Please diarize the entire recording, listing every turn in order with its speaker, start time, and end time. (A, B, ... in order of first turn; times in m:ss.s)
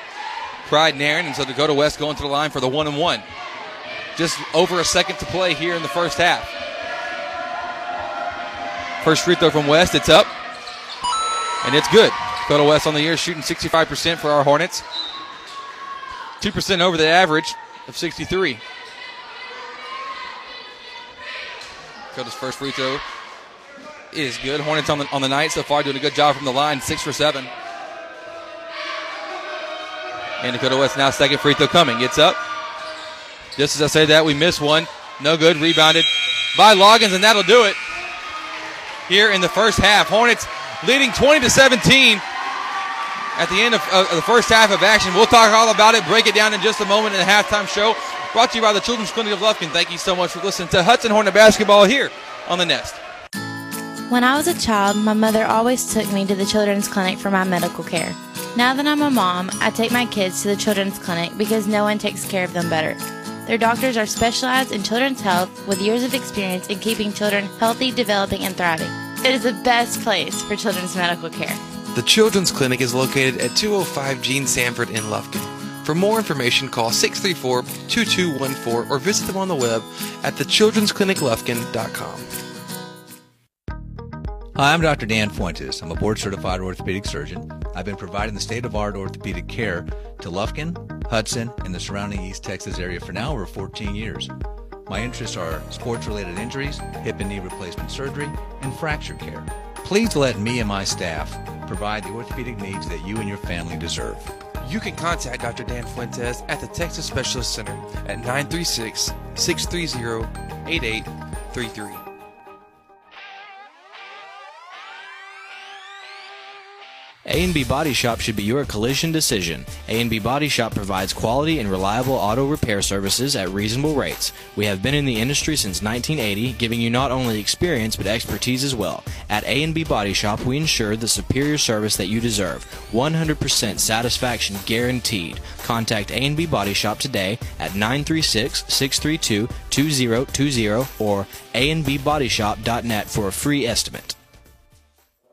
0:00.6-0:03.2 A
0:04.2-0:06.5 A
0:09.0-0:10.3 A
0:11.6-0:14.8 A
0:16.4-0:18.6 A
0:22.1-0:23.0 A
0:24.1-0:27.5 A
0:30.4-0:32.4 A
0:33.6-0:37.8 A
0:39.1-0:42.2 A
0:43.4-0:53.0 A
0:54.1-1:11.6 B
1:11.9-1:22.3 C
1:24.6-1:34.3 D
1:34.9-1:44.3 D
1:44.6-1:52.0 C
1:57.2-2:24.2 E